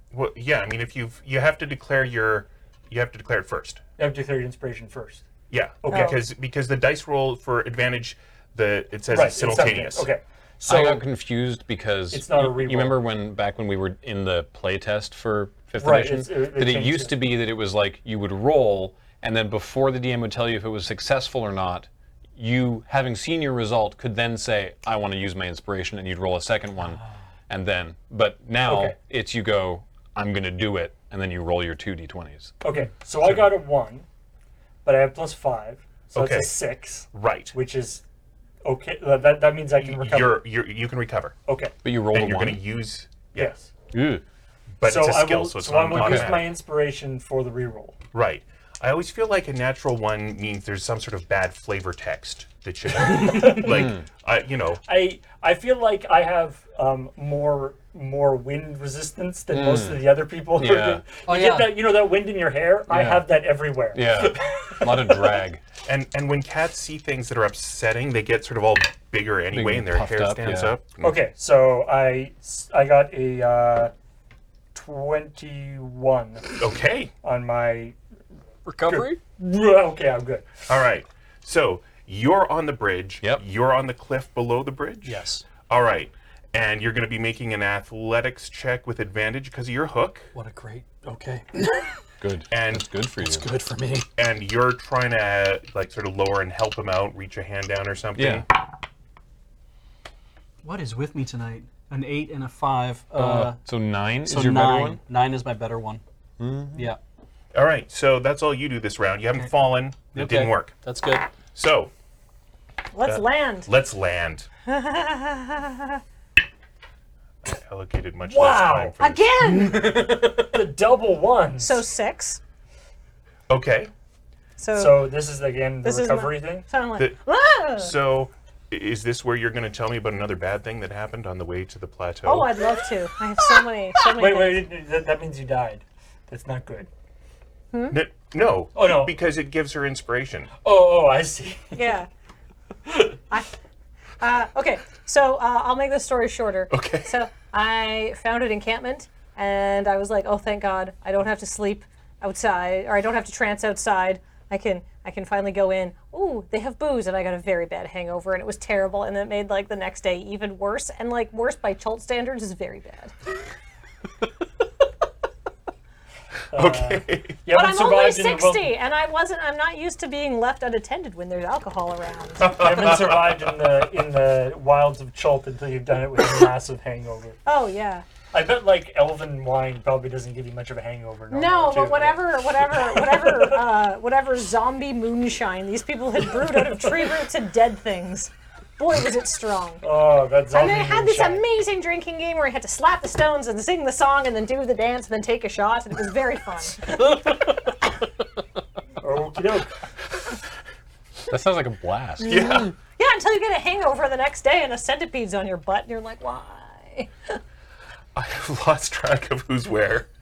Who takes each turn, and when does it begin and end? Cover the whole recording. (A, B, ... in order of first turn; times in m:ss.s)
0:00.1-0:03.8 A
0:04.0-0:05.2 B
0:05.5-0:10.1 A
0:05.8-0:06.2 B
0:05.9-0:06.2 C
0:09.1-0:11.0 B
0:10.6-0:32.6 D
0:12.1-0:13.0 B
0:15.8-0:17.2 B
0:28.6-0:29.0 B
0:32.6-0:34.1 B
0:34.8-0:38.0 B
0:36.1-0:36.6 A
0:37.1-0:37.6 A
0:38.6-0:40.4 B
0:39.7-0:41.4 A
0:41.5-0:41.8 B
0:41.8-0:42.6 D
0:42.1-0:43.5 A
0:43.3-0:43.7 B
0:43.9-0:44.2 D
0:44.8-0:46.6 A
0:44.8-0:48.0 B
0:45.9-0:46.3 D
0:48.1-0:54.8 A
0:53.0-0:53.9 B
0:53.7-0:54.0 D
0:54.9-1:04.8 B
0:59.5-1:01.0 D
1:01.2-1:01.9 E
1:02.9-1:03.3 D
1:03.9-1:05.6 D
1:05.8-1:11.2 A
1:09.5-1:10.8 D
1:11.0-1:13.9 B
1:14.7-1:16.6 B
1:16.6-1:17.1 A
1:17.2-1:18.0 B
1:18.6-1:19.2 E
1:18.8-1:20.5 B
1:20.7-1:30.3 A
1:25.0-1:25.5 E
1:30.3-1:32.0 E
1:32.2-1:33.5 D
1:32.5-1:32.9 A
1:33.2-1:34.1 E
1:34.2-1:38.5 A
1:38.2-1:38.4 D
1:40.6-1:43.6 E
1:43.2-1:45.0 D
1:44.2-1:46.0 E
1:46.4-1:46.9 D
1:47.5-1:50.8 A
1:50.1-1:51.3 E
1:51.5-1:51.9 A
1:52.9-1:53.7 C
1:53.0-1:54.5 A
1:54.7-1:56.0 C
1:57.4-1:59.3 A
1:58.2-1:58.9 B
1:59.0-2:00.1 C
1:59.4-2:00.5 E
2:00.0-2:01.8 B
2:01.6-2:02.4 C
2:03.5-2:03.9 A
2:04.6-2:05.1 C
2:04.7-2:06.7 B
2:05.8-2:07.9 C
2:07.8-2:12.5 A
2:12.2-2:14.7 C
2:14.0-2:16.9 B
2:17.7-2:18.0 C
2:17.9-2:20.5 A
2:18.8-2:19.1 B
2:20.6-2:21.8 B
2:21.7-2:22.1 C
2:24.2-2:43.1 C
2:26.7-2:27.1 A
2:46.5-2:48.7 B
2:46.5-2:47.4 A
2:47.5-2:52.5 C
2:52.4-2:53.4 A
2:52.4-2:57.4 B
2:57.5-2:58.0 C
2:58.3-3:03.6 B
3:01.3-3:09.9 C
3:06.4-3:07.1 B
3:09.8-3:11.4 B
3:10.5-3:17.2 C
3:19.0-3:19.8 B
3:21.3-3:22.6 D
3:22.2-3:22.7 A
3:22.2-3:27.4 C
3:28.2-3:30.1 A